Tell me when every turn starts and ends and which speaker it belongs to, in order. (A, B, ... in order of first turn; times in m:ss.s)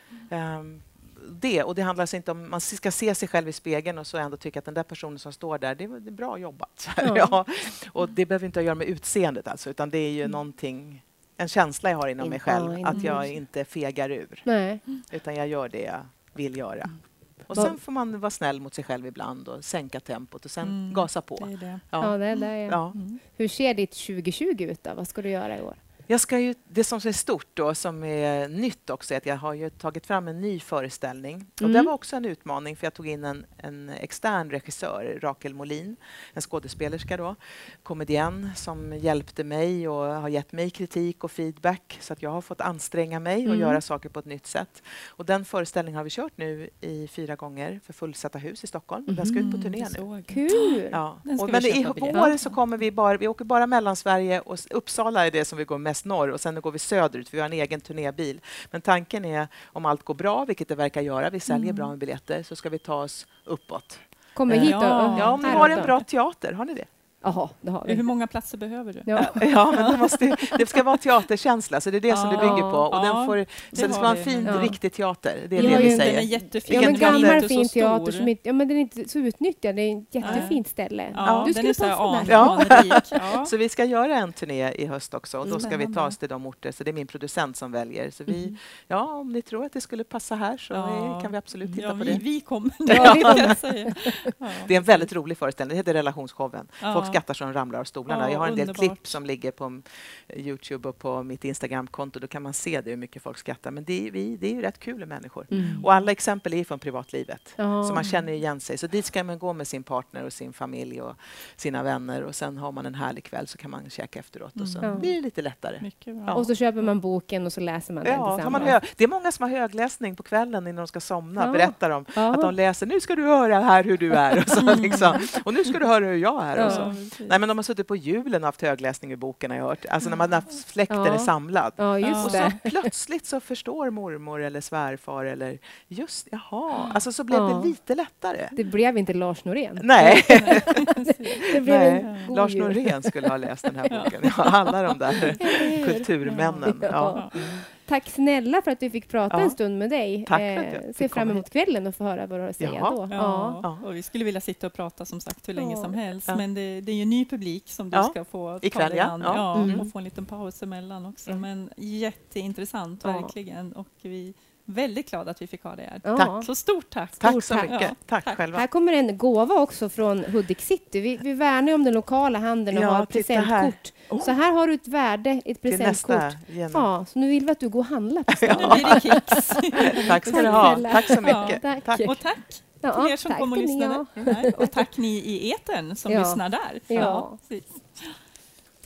0:00.3-0:23.0 A
0:07.0-0:07.4 B
0:12.2-0:13.3 B
0:12.9-0:13.2 C
0:14.4-0:14.8 B
0:17.5-0:17.8 B
0:20.6-0:22.4 C
0:22.0-0:25.8 B
0:22.9-0:23.2 C
0:26.1-0:50.0 A
0:31.6-0:31.9 B
0:43.4-0:43.8 B
0:49.1-0:49.5 B
0:49.4-0:52.5 C
0:50.3-0:51.0 B
0:50.9-1:06.9 A
1:01.5-1:01.9 C
1:04.4-1:05.9 B
1:04.5-1:06.0 C
1:07.2-1:08.1 B
1:07.8-1:10.8 C
1:09.1-1:09.4 B
1:09.2-1:17.4 A
1:12.1-1:14.8 C
1:12.4-1:12.8 B
1:13.8-1:14.8 B
1:15.5-1:23.0 B
1:15.6-1:18.3 C
1:20.2-1:23.5 C
1:20.2-1:20.5 A
1:21.2-1:21.5 A
1:22.2-1:32.2 A
1:25.6-1:26.2 C
1:30.7-1:35.0 C
1:32.8-1:33.6 A
1:32.9-1:34.3 B
1:34.6-1:56.5 A
1:36.8-1:37.2 C
1:38.1-1:39.2 C
1:45.5-1:45.8 B
1:45.5-1:46.1 C
1:47.6-1:48.0 B
1:48.0-1:48.2 C
1:54.6-1:55.2 C
1:54.8-1:55.1 B
1:55.8-1:56.4 C
1:56.3-1:58.7 B
1:58.0-2:18.5 A
1:58.4-1:58.7 C
2:01.4-2:02.5 B
2:04.7-2:05.4 C
2:06.6-2:06.9 B
2:06.6-2:07.4 C
2:10.9-2:12.9 B
2:12.0-2:12.5 C
2:16.8-2:17.7 B
2:18.5-2:23.3 B
2:19.8-2:20.8 A
2:20.3-2:22.3 C
2:21.5-2:27.6 A
2:23.9-2:25.6 C
2:25.4-2:26.1 B
2:26.2-2:27.4 C
2:26.6-2:33.6 B
2:29.3-2:29.6 A
2:30.2-2:31.4 A
2:32.6-2:33.1 A
2:33.1-2:48.4 C
2:35.5-2:36.0 B
2:37.9-2:39.9 A
2:39.5-2:39.9 B
2:43.0-2:43.3 B
2:46.0-2:46.5 B
2:46.2-2:46.5 A
2:47.2-2:48.6 A
2:47.2-2:47.9 B
2:48.5-3:02.2 B
2:52.7-2:54.4 A
2:55.6-2:56.9 A
2:58.3-3:02.1 A
2:58.5-3:08.2 C
3:02.8-3:04.8 B
3:04.2-3:04.5 A
3:06.1-3:07.4 B